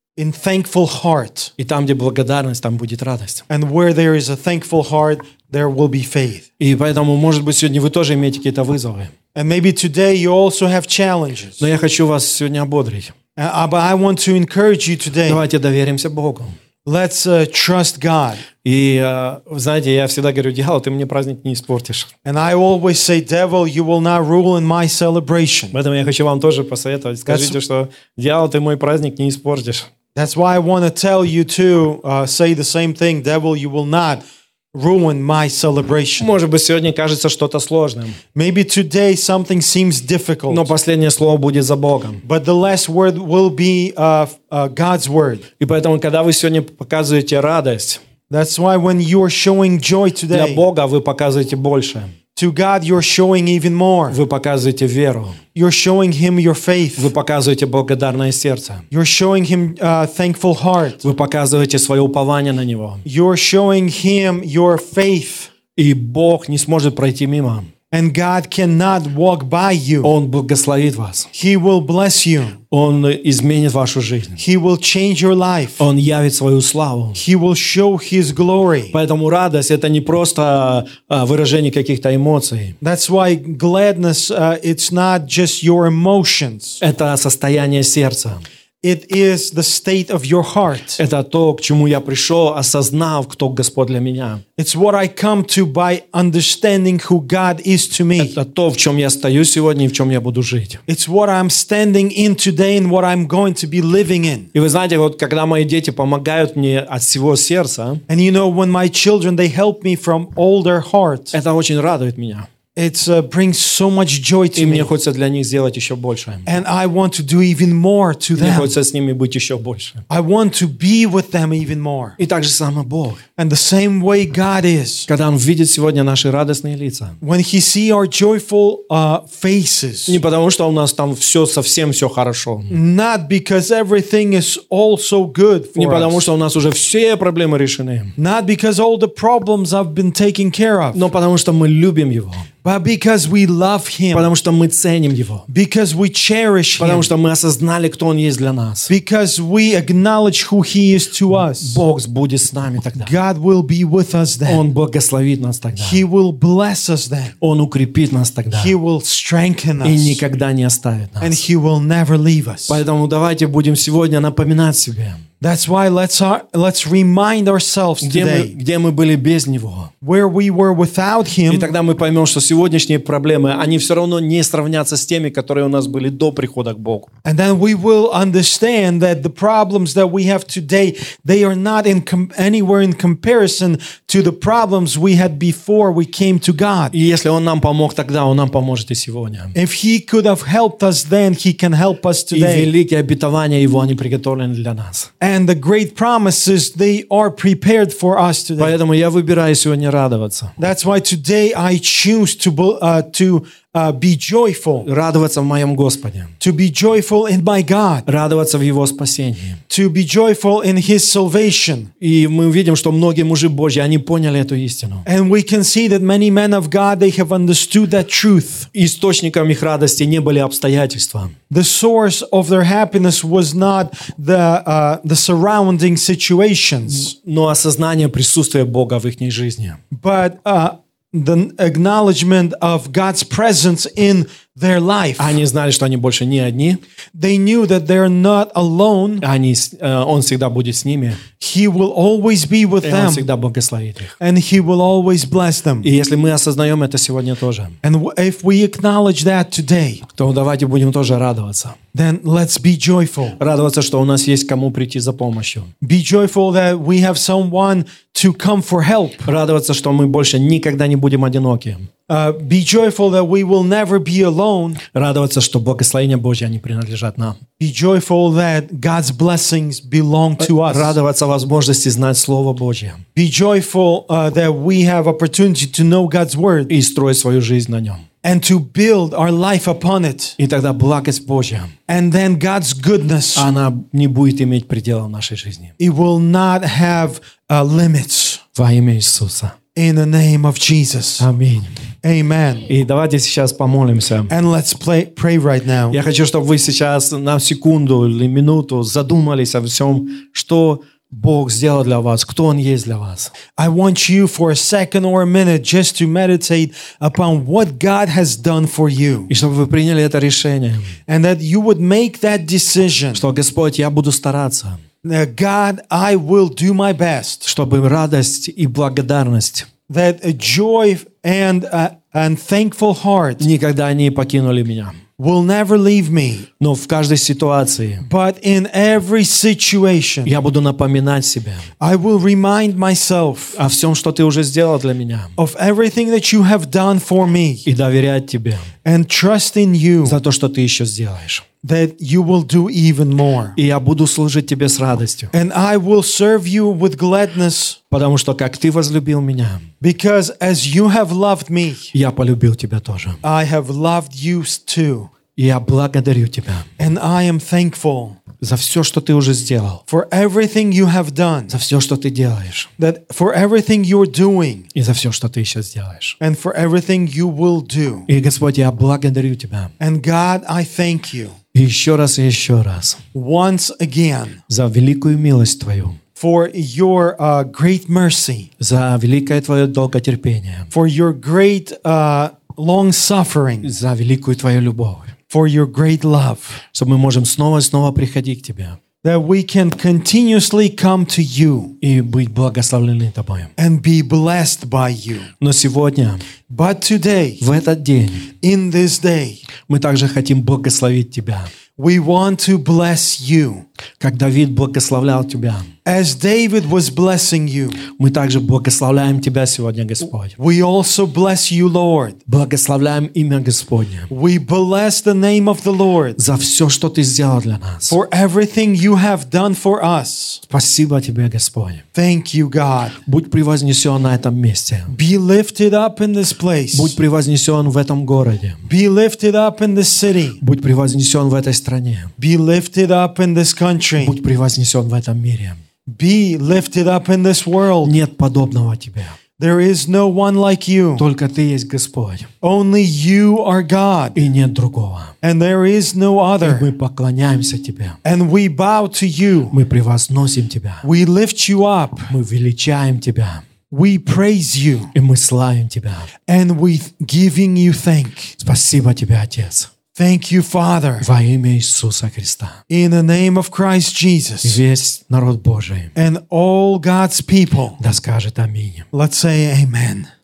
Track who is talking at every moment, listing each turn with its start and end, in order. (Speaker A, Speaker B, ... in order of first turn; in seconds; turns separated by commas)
Speaker A: 0.2-1.5, Speaker B: 1.6-3.4, Speaker A: 3.5-6.5, Speaker B: 6.6-9.1, Speaker A: 9.3-11.7, Speaker B: 11.6-13.1, Speaker A: 13.4-15.4, Speaker B: 15.3-16.6, Speaker A: 16.9-18.4, Speaker B: 18.6-22.1, Speaker A: 22.2-25.8, Speaker B: 25.7-29.9, Speaker A: 27.3-27.6, Speaker A: 30.1-34.2, Speaker A: 34.7-36.3, Speaker B: 36.2-38.2, Speaker A: 38.4-40.7, Speaker B: 40.5-42.2, Speaker A: 42.2-45.5, Speaker B: 45.6-48.0, Speaker A: 48.3-50.6, Speaker B: 50.3-52.1, Speaker A: 52.4-54.2, Speaker B: 54.1-55.4, Speaker A: 55.5-57.1, Speaker B: 57.0-58.9, Speaker A: 58.9-61.1, Speaker B: 61.0-63.0, Speaker A: 63.0-65.5, Speaker B: 65.8-67.7, Speaker A: 67.9-70.1, Speaker B: 70.0-71.3, Speaker A: 71.3-72.6, Speaker B: 72.7-74.4, Speaker A: 74.4-75.8, Speaker B: 75.8-77.2, Speaker A: 77.2-79.0, Speaker B: 78.9-82.8, Speaker A: 82.8-86.8, Speaker B: 86.8-88.4, Speaker A: 88.8-91.0, Speaker B: 91.0-94.4, Speaker A: 94.6-98.4, Speaker B: 98.2-100.8, Speaker A: 100.9-104.5, Speaker B: 104.5-108.0, Speaker A: 108.1-111.4, Speaker B: 111.3-112.5, Speaker A: 112.8-114.9, Speaker B: 114.6-116.5, Speaker A: 116.5-118.7, Speaker B: 118.4-120.0, Speaker A: 120.1-122.2, Speaker B: 122.2-123.2, Speaker A: 123.4-125.1, Speaker B: 125.1-127.2, Speaker A: 127.2-130.2, Speaker B: 130.1-132.8, Speaker A: 132.7-136.3, Speaker B: 135.8-138.2, Speaker A: 138.2-141.0, Speaker B: 140.9-142.5, Speaker A: 142.6-144.3, Speaker B: 144.1-145.5, Speaker A: 145.5-147.1, Speaker B: 146.8-148.9, Speaker A: 148.9-151.8, Speaker B: 151.4-153.1, Speaker A: 153.0-154.6, Speaker B: 154.5-156.0, Speaker A: 155.8-157.3, Speaker B: 157.4-158.7, Speaker A: 158.5-160.2, Speaker B: 159.8-161.4, Speaker A: 161.2-162.8, Speaker B: 162.7-165.2, Speaker A: 165.4-168.5, Speaker B: 168.0-169.9, Speaker A: 170.0-171.8, Speaker B: 171.5-177.1, Speaker A: 177.2-186.9, Speaker B: 186.9-189.5, Speaker A: 189.6-192.7, Speaker B: 192.3-195.1, Speaker A: 195.2-198.8, Speaker B: 198.6-200.6, Speaker A: 200.6-204.9, Speaker B: 204.8-206.3, Speaker A: 206.4-208.1, Speaker B: 208.1-209.6, Speaker A: 209.7-211.9, Speaker B: 212.0-215.1, Speaker A: 215.1-218.7, Speaker B: 218.7-221.3, Speaker A: 221.5-227.1, Speaker B: 226.9-229.8, Speaker A: 229.9-235.4, Speaker B: 235.2-236.8, Speaker A: 237.2-239.2, Speaker B: 239.2-241.2, Speaker A: 241.4-243.3, Speaker B: 242.8-244.1, Speaker A: 244.2-245.9, Speaker B: 245.8-247.8, Speaker A: 247.8-250.0, Speaker B: 250.2-251.8, Speaker A: 251.9-253.4, Speaker B: 253.4-255.7, Speaker A: 255.8-259.3, Speaker B: 259.3-261.9, Speaker A: 262.1-264.8, Speaker B: 264.9-267.4, Speaker A: 267.6-271.0, Speaker B: 270.4-273.0, Speaker A: 273.1-276.7, Speaker B: 276.7-278.1, Speaker A: 278.2-280.4, Speaker B: 280.4-281.7, Speaker A: 281.9-283.5, Speaker B: 283.4-285.7, Speaker A: 285.8-288.4, Speaker B: 288.6-289.6, Speaker A: 289.8-291.3, Speaker B: 291.2-291.7, Speaker A: 292.0-292.7, Speaker B: 292.7-294.3, Speaker A: 294.3-296.0, Speaker B: 295.9-303.3, Speaker A: 303.6-309.3, Speaker B: 309.3-311.0, Speaker A: 311.1-313.3, Speaker B: 313.1-314.8, Speaker A: 315.0-317.5, Speaker B: 317.4-319.7, Speaker A: 319.9-323.5, Speaker B: 323.4-325.0, Speaker A: 325.2-326.5, Speaker B: 326.6-328.1, Speaker A: 328.0-330.3, Speaker B: 330.2-331.7, Speaker A: 331.8-333.6, Speaker B: 333.6-335.3, Speaker A: 335.4-337.7, Speaker B: 337.7-338.7, Speaker A: 338.9-340.2, Speaker B: 340.1-341.4, Speaker A: 341.6-343.6, Speaker B: 343.6-345.3, Speaker A: 345.3-347.8, Speaker B: 347.9-349.7, Speaker A: 349.8-351.9, Speaker B: 351.9-353.2, Speaker A: 353.2-355.1, Speaker B: 355.4-356.7, Speaker A: 356.8-358.2, Speaker B: 358.4-359.8, Speaker A: 359.9-361.6, Speaker B: 361.5-362.7, Speaker A: 362.8-364.7, Speaker B: 364.8-366.2, Speaker A: 366.2-368.1, Speaker B: 368.1-369.7, Speaker A: 369.8-371.4, Speaker B: 371.5-373.0, Speaker A: 373.1-374.4, Speaker B: 374.5-376.0, Speaker A: 376.2-378.5, Speaker B: 378.6-380.7, Speaker A: 380.7-383.7, Speaker B: 383.6-385.1, Speaker A: 385.3-386.6, Speaker B: 386.7-388.8, Speaker A: 389.0-391.8, Speaker B: 391.8-393.5, Speaker A: 393.6-395.3, Speaker B: 395.4-396.2, Speaker A: 396.5-397.4, Speaker B: 397.4-398.3, Speaker A: 398.4-399.4, Speaker B: 399.7-401.5, Speaker A: 401.8-403.6, Speaker B: 404.0-405.7, Speaker A: 405.9-407.8, Speaker B: 407.9-410.4, Speaker A: 410.4-412.2, Speaker B: 412.3-414.1, Speaker A: 414.1-416.2, Speaker B: 416.2-418.0, Speaker A: 417.9-420.4, Speaker B: 420.5-421.8, Speaker A: 421.9-423.0, Speaker B: 423.1-424.9, Speaker A: 424.9-427.0, Speaker B: 426.7-428.6, Speaker A: 428.7-430.4, Speaker B: 430.4-432.1, Speaker A: 432.2-434.2, Speaker B: 434.0-435.6, Speaker A: 435.9-438.0, Speaker B: 437.8-439.2, Speaker A: 439.4-441.1, Speaker B: 441.0-442.3, Speaker A: 442.4-444.3, Speaker B: 444.2-445.1, Speaker A: 445.2-446.7, Speaker B: 446.4-448.0, Speaker A: 448.0-449.6, Speaker B: 449.5-450.9, Speaker A: 450.8-452.1, Speaker B: 452.1-453.4, Speaker A: 453.7-454.9, Speaker B: 454.9-456.1, Speaker A: 456.3-458.4, Speaker B: 458.4-459.7, Speaker A: 459.9-461.1, Speaker B: 461.0-462.6, Speaker A: 462.7-464.6, Speaker B: 464.4-465.9, Speaker A: 466.0-467.8, Speaker B: 467.8-468.9, Speaker A: 468.9-470.1